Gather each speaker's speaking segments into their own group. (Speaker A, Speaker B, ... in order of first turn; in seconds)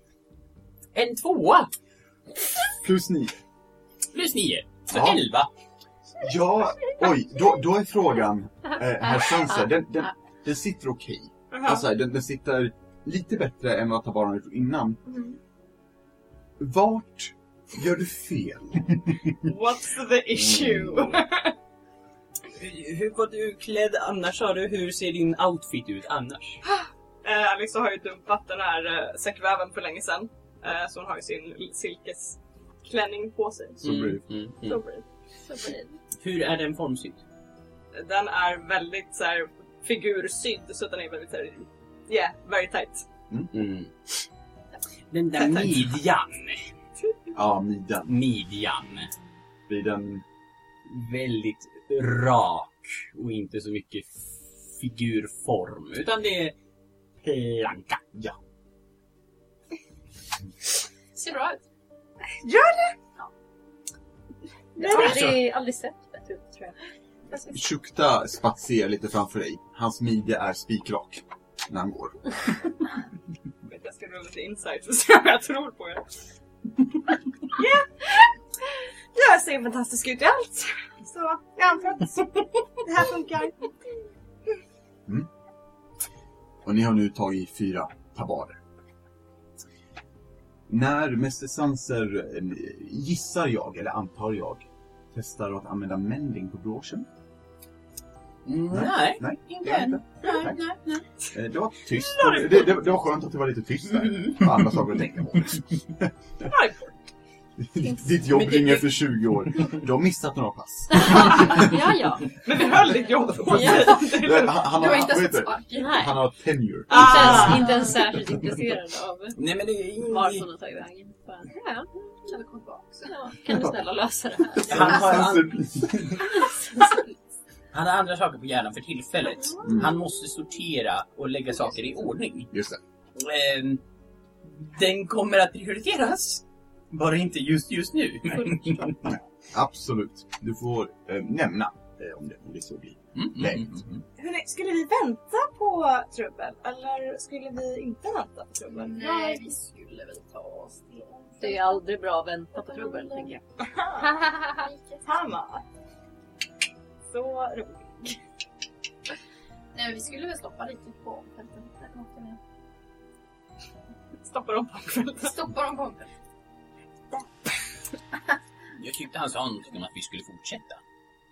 Speaker A: 0.9-1.7, 4.1-5.5, 20.4-21.2, 22.5-26.6, 33.8-34.8, 36.2-37.2, 43.5-44.2, 45.1-46.8, 48.1-49.1, 50.9-56.5, 57.2-58.0, 64.8-65.4, 98.5-99.2, 104.1-104.6, 108.2-109.0, 119.3-120.4, 124.7-125.9, 127.7-132.5, 133.2-133.8, 134.5-139.2, 143.1-143.8, 168.8-170.8
Speaker B: 2.8-3.4, 4.9-5.2, 6.2-15.0, 16.6-19.5, 33.8-34.2, 47.3-48.1, 49.7-50.2, 67.5-72.5, 86.6-88.6, 90.7-97.1, 98.7-100.6, 101.3-106.5, 107.6-111.8, 113.3-117.7, 123.5-123.7, 124.5-126.5, 129.6-130.0, 132.5-132.8, 139.1-144.0
Speaker C: 11.5-11.8, 19.4-21.5, 26.6-33.8, 34.6-35.0, 37.9-43.0, 62.4-63.0, 64.9-65.2, 73.6-76.2, 77.5-78.3, 79.1-83.8, 101.9-102.8, 112.4-114.6, 116.9-117.8, 144.2-149.5, 153.6-154.2, 155.0-155.6, 157.0-158.2, 164.2-165.3
Speaker D: 35.5-35.9, 64.8-66.8, 110.9-112.7, 113.5-113.9, 115.7-116.1, 116.9-119.4, 120.0-121.9, 123.0-125.3, 151.4-153.4, 154.2-154.7
Speaker E: 61.1-61.6, 99.5-100.8, 113.5-116.1, 117.3-118.1, 122.2-123.1, 148.7-151.8, 152.6-153.4, 154.0-155.0, 159.7-162.4, 165.2-166.1